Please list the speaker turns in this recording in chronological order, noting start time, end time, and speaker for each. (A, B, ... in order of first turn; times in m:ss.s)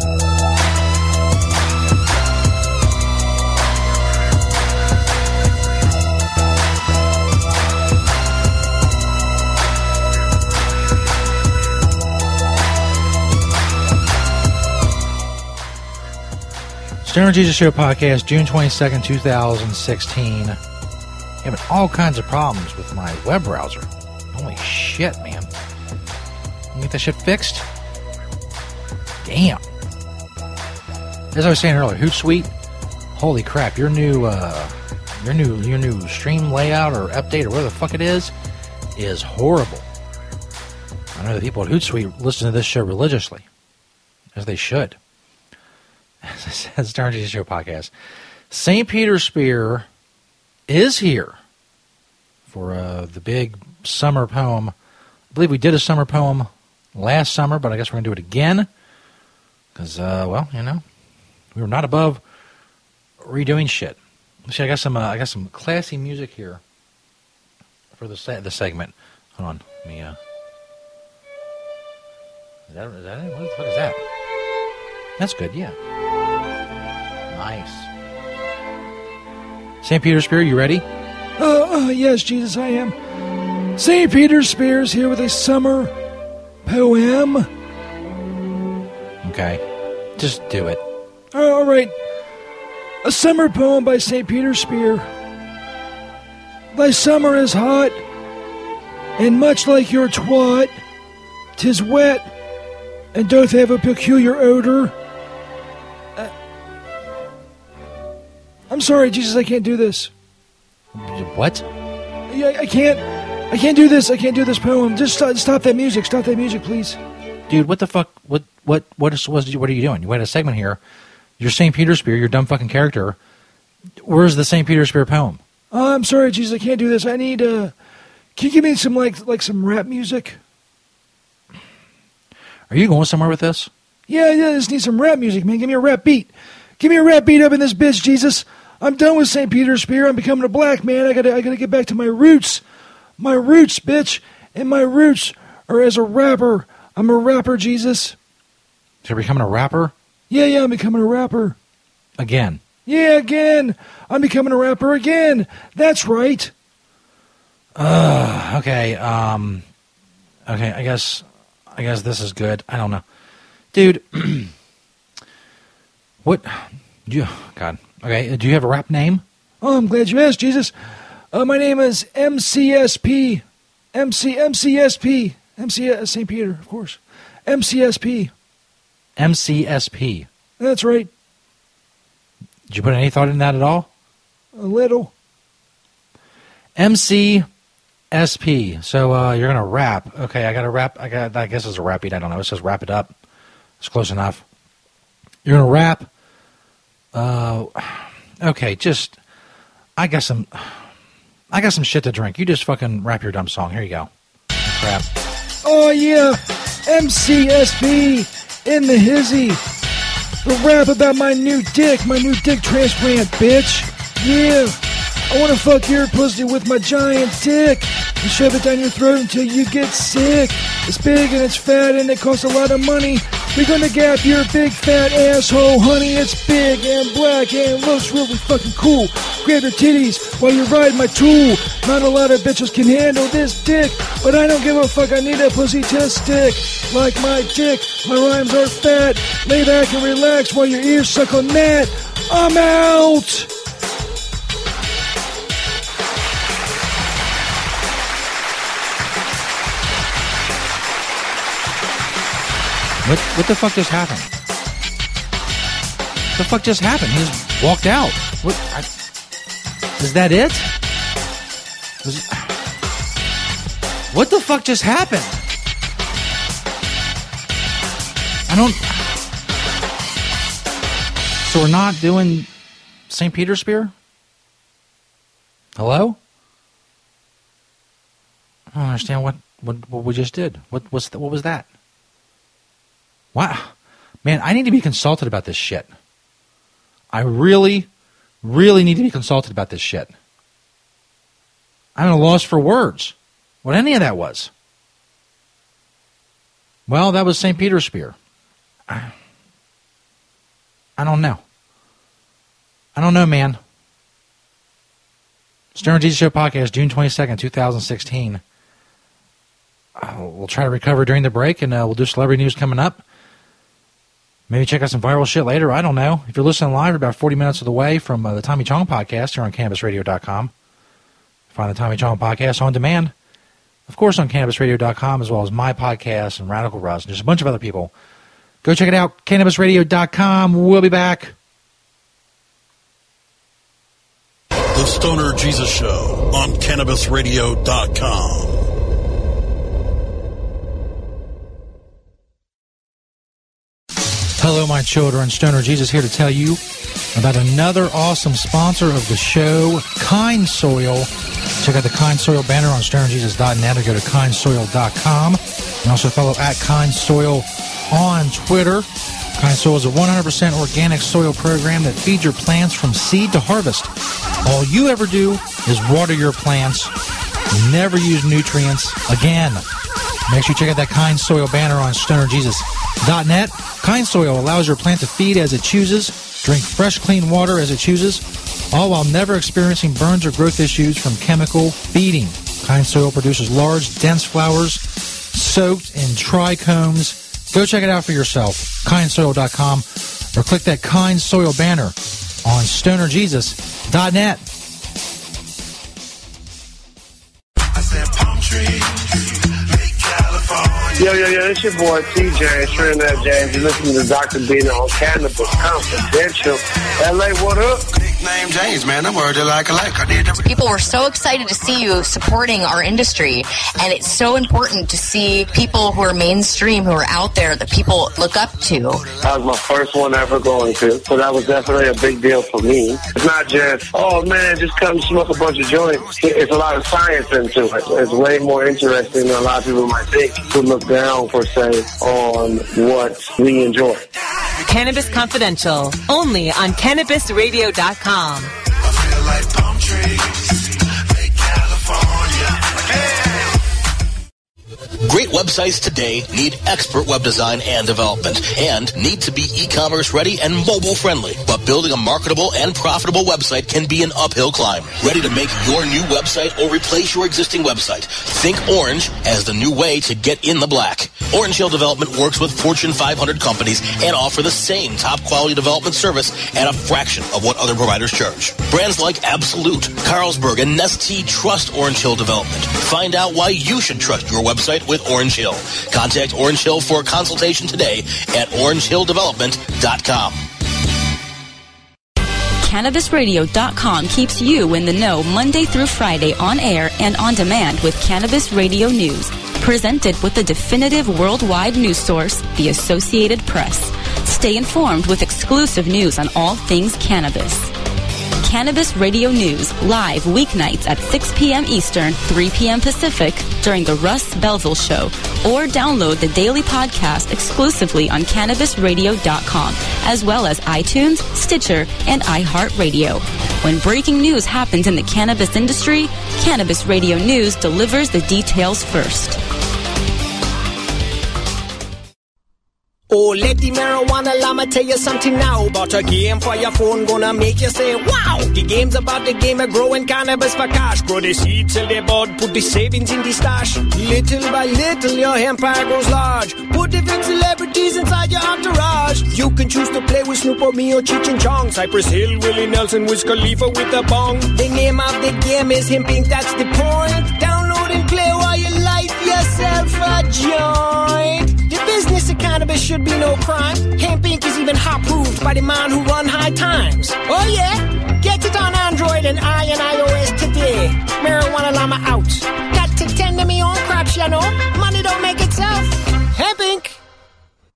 0:17.0-0:20.6 A
0:21.4-0:25.5 A
0:26.7-0:27.6 A
0:29.2-0:29.6 A
0:31.3-0:32.5 A
0:33.1-0:38.3 A
0:38.9-0:39.8 A
0:41.1-0:43.4 A
0:44.3-0:45.0 A
0:46.2-0:47.9 A
0:48.5-0:49.8 A
0:50.7-0:51.4 A
0:52.5-0:54.7 A
0:55.3-0:58.7 A
0:59.7-1:00.8 A
1:01.5-1:02.2 A
1:03.2-1:06.6 A
1:07.9-1:10.2 A
1:12.7-1:14.0 A
1:15.2-1:15.8 A
1:17.3-1:17.9 A
1:19.8-1:20.8 A
1:21.4-1:22.9 B
1:23.8-1:25.9 B
1:26.6-1:27.5 B
1:29.2-1:29.6 A
1:30.2-1:30.8 A
1:31.3-1:31.9 B
1:33.0-1:35.0 B
1:36.7-1:38.0 B
1:39.2-1:40.7 B
1:41.6-1:42.3 B
1:43.1-1:44.9 B
1:48.7-1:50.1 B
1:50.9-1:51.6 A
1:52.3-1:57.0 B
1:57.5-2:00.8 A
2:01.4-2:03.2 A
2:04.0-2:05.4 A
2:05.7-2:07.7 B
2:08.4-2:10.4 B
2:12.7-2:13.7 A
2:14.1-2:22.6 B
2:23.2-2:28.1 B
2:29.0-2:29.9 A
2:30.3-2:31.6 B
2:32.2-2:32.6 A
2:32.8-2:36.5 B
2:37.7-2:39.6 A
2:40.4-2:43.0 A
2:43.7-2:44.5 A
2:46.2-2:49.2 A
2:49.6-2:50.7 B
2:51.3-2:58.3 B
2:59.2-3:00.3 A
3:00.6-3:01.1 B
3:02.7-3:03.9 A
3:04.5-3:05.1 B
3:06.8-3:07.4 A
3:08.1-3:13.1 A
3:13.8-3:14.4 A
3:15.4-3:16.1 A
3:17.1-3:19.2 A
3:20.0-3:20.9 A
3:21.5-3:24.1 A
3:24.6-3:25.1 A
3:25.6-3:29.6 B
3:30.4-3:34.8 B
3:35.3-4:03.5 B
4:13.0-4:14.3 A
4:16.3-4:18.9 A
4:20.0-4:20.7 A
4:22.0-4:22.5 A
4:24.1-4:25.4 A
4:28.5-4:29.0 A
4:31.4-4:32.5 A
4:33.1-4:33.9 A
4:35.8-4:36.2 A
4:38.7-4:41.7 A
4:43.3-4:45.9 A
4:47.1-4:47.9 A
4:48.4-4:50.1 A
4:52.0-4:54.5 A
4:56.9-4:58.2 A
4:58.9-4:59.2 A
5:01.0-5:01.4 A
5:03.0-5:03.6 A
5:05.7-5:08.4 A
5:10.0-5:13.0 A
5:14.5-5:20.5 A
5:21.5-5:23.1 A
5:23.9-5:27.9 A
5:28.6-5:31.3 A
5:34.7-5:38.6 C
5:44.4-5:46.6 A
5:47.1-5:51.1 A
5:51.6-6:03.9 A
6:04.4-6:06.9 A
6:07.5-6:09.6 A
6:10.3-6:34.4 A
6:41.0-6:47.9 D
6:48.0-6:50.5 E
6:50.4-6:59.0 F
6:59.2-7:14.0 D
7:14.6-7:18.5 G
7:25.0-8:00.4 H
8:02.6-8:17.7 I
8:18.4-8:39.4 I
8:43.1-9:27.0 J